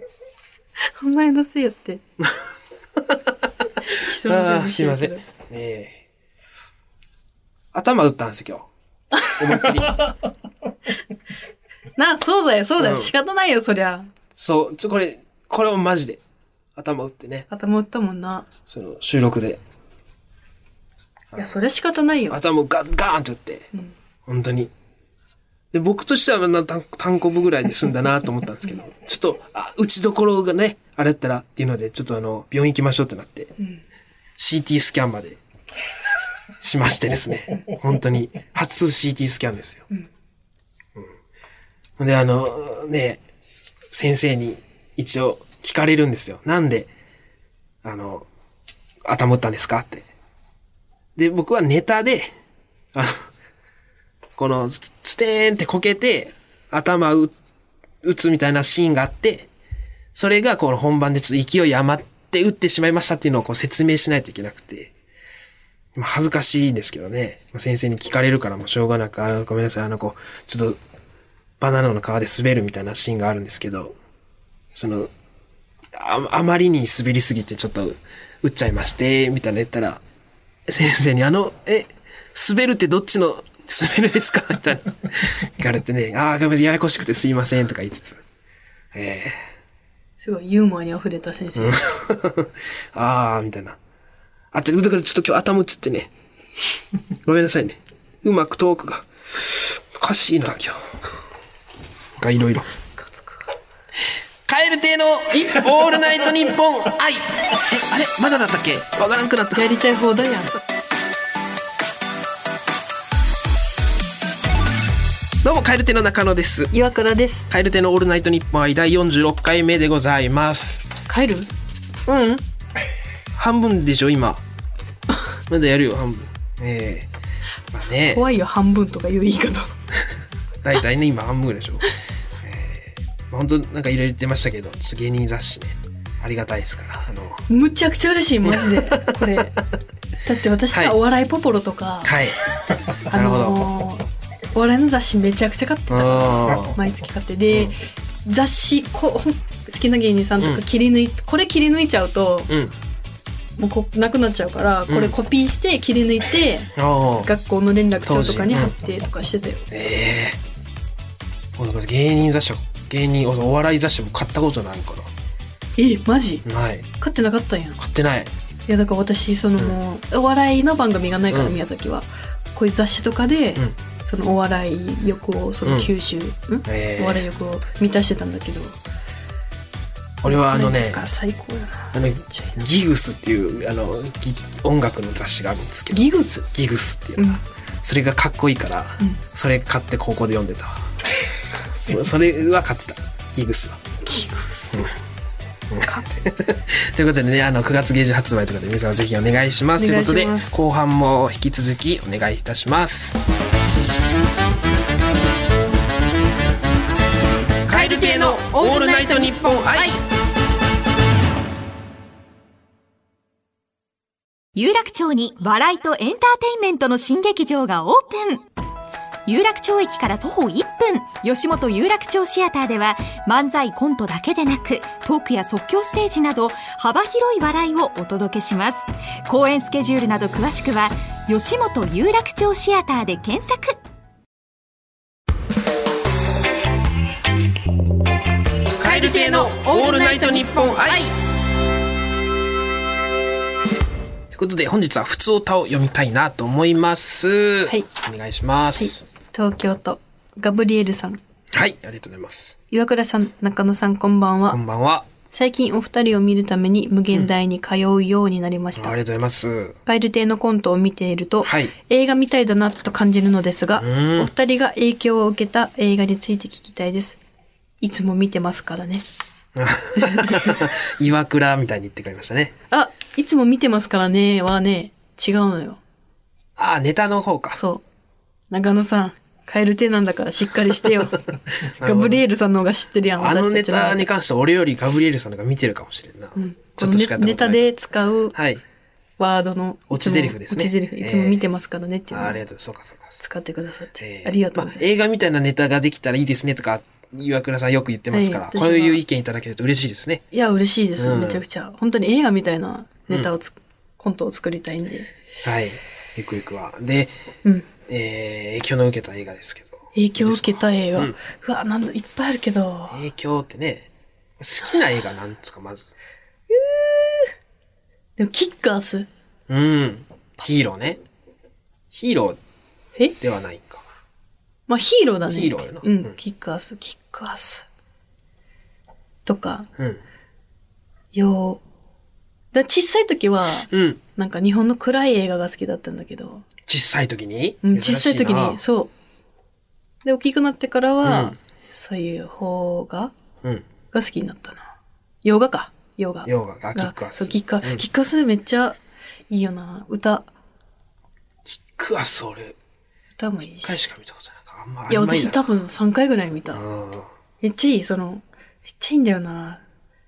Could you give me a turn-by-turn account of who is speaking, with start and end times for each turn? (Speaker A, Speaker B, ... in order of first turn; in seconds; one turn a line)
Speaker A: 0.9-2.0
Speaker A: 3.9-5.2
Speaker B: 4.0-6.0
Speaker B: 7.7-10.1
Speaker A: 11.9-14.1
Speaker B: 12.8-13.1
Speaker B: 14.4-16.2
Speaker B: 16.8-17.5
Speaker A: 17.5-18.5
Speaker B: 18.7-19.6
Speaker A: 21.3-22.4
Speaker B: 22.3-23.7
Speaker B: 24.2-24.7
Speaker B: 25.7-33.5
Speaker B: 34.4-35.4
Speaker B: 36.6-39.9
Speaker B: 42.0-43.2
Speaker B: 43.9-46.9
Speaker B: 47.8-48.3
Speaker B: 49.0-50.1
Speaker B: 51.1-52.3
Speaker B: 52.9-53.3
Speaker B: 54.4-57.3
Speaker B: 58.0-59.5
Speaker B: 60.1-64.9
Speaker B: 66.0-70.8
Speaker B: 71.6-73.9
Speaker B: 74.7-75.1
Speaker B: 75.9-80.0
Speaker B: 80.7-88.2
Speaker B: 88.9-89.3
Speaker A: 90.2-91.8
Speaker B: 91.5-93.8
Speaker B: 94.5-96.1
Speaker B: 97.2-100.8
Speaker B: 102.2-102.7
Speaker A: 103.0-103.4
Speaker B: 104.5-109.7
Speaker A: 109.5-110.5
Speaker B: 115.4-116.7
Speaker A: 116.7-117.5
Speaker B: 117.5-120.9
Speaker A: 121.0-121.5
Speaker B: 122.1-122.4
Speaker B: 123.3-124.4
Speaker B: 125.5-127.1
Speaker B: 127.7-128.2
Speaker A: 128.1-129.8
Speaker B: 130.6-137.5
Speaker A: 137.5-139.6
Speaker B: 138.4-139.4
Speaker A: 140.2-142.1
Speaker B: 140.7-141.0
Speaker B: 142.0-142.4
Speaker A: 143.1-152.5
Speaker B: 143.1-143.7
Speaker B: 145.9-146.8
Speaker B: 152.5-152.7
Speaker A: 153.6-159.7
Speaker B: 154.9-155.1
Speaker B: 156.7-157.3
Speaker B: 158.0-158.8
Speaker B: 159.7-160.4
Speaker B: 161.6-165.1
Speaker A: 165.8-167.8
Speaker B: 166.4-166.9
Speaker B: 167.8-168.3
Speaker A: 168.7-178.8
Speaker B: 171.3-171.6
Speaker B: 175.6-175.9
Speaker B: 176.7-177.2
Speaker B: 180.2-181.0
Speaker A: 180.2-182.5
Speaker B: 181.9-190.8
Speaker A: 185.9-186.5
Speaker B: 191.7-193.8
Speaker A: 194.0-194.9
Speaker B: 195.7-203.2
Speaker A: 199.8-200.6
Speaker B: 207.7-210.0
Speaker A: 207.8-208.5
Speaker C: 207.8-209.8
Speaker A: 209.7-209.9
Speaker C: 214.5-218.4
Speaker C: 219.2-233.8
Speaker B: 238.8-241.1
Speaker A: 238.8-241.1
Speaker B: 244.3-249.0
Speaker A: 248.8-251.2
Speaker B: 251.5-252.6
Speaker A: 252.7-254.6
Speaker B: 254.5-255.1
Speaker A: 255.3-259.0
Speaker B: 258.7-259.8
Speaker A: 259.9-267.2
Speaker B: 261.4-261.7
Speaker B: 263.8-264.3
Speaker A: 267.8-269.1
Speaker B: 269.6-272.5
Speaker A: 270.1-270.5
Speaker A: 272.7-275.8
Speaker B: 276.6-277.6
Speaker A: 277.5-277.8
Speaker A: 278.5-281.2
Speaker B: 281.6-282.2
Speaker A: 281.8-284.1
Speaker B: 283.2-287.7
Speaker A: 286.4-288.3
Speaker B: 288.3-288.6
Speaker A: 289.2-292.4
Speaker B: 289.9-291.4
Speaker B: 292.1-293.2
Speaker A: 293.2-294.9
Speaker B: 294.0-300.2
Speaker A: 298.1-299.0
Speaker A: 300.3-305.1
Speaker B: 301.0-301.4
Speaker B: 305.4-307.1
Speaker B: 307.9-311.2
Speaker A: 309.9-313.0
Speaker B: 312.9-313.9
Speaker B: 314.4-315.9
Speaker A: 316.5-317.3
Speaker A: 318.2-319.1
Speaker B: 319.5-321.0
Speaker B: 321.9-322.4
Speaker B: 323.2-323.8
Speaker A: 324.7-327.6
Speaker B: 325.3-326.1
Speaker A: 329.2-329.7
Speaker A: 331.1-331.6
Speaker A: 332.5-336.4
Speaker B: 333.7-334.0
Speaker B: 336.7-338.6
Speaker A: 337.6-338.9
Speaker A: 340.0-343.1
Speaker B: 341.0-341.4
Speaker A: 343.9-344.7
Speaker A: 345.2-348.8
Speaker B: 346.2-347.8
Speaker A: 349.3-350.3
Speaker B: 351.4-352.6
Speaker A: 353.2-353.8
Speaker B: 353.6-355.4
Speaker A: 354.9-356.6
Speaker B: 356.5-357.1
Speaker A: 357.4-359.6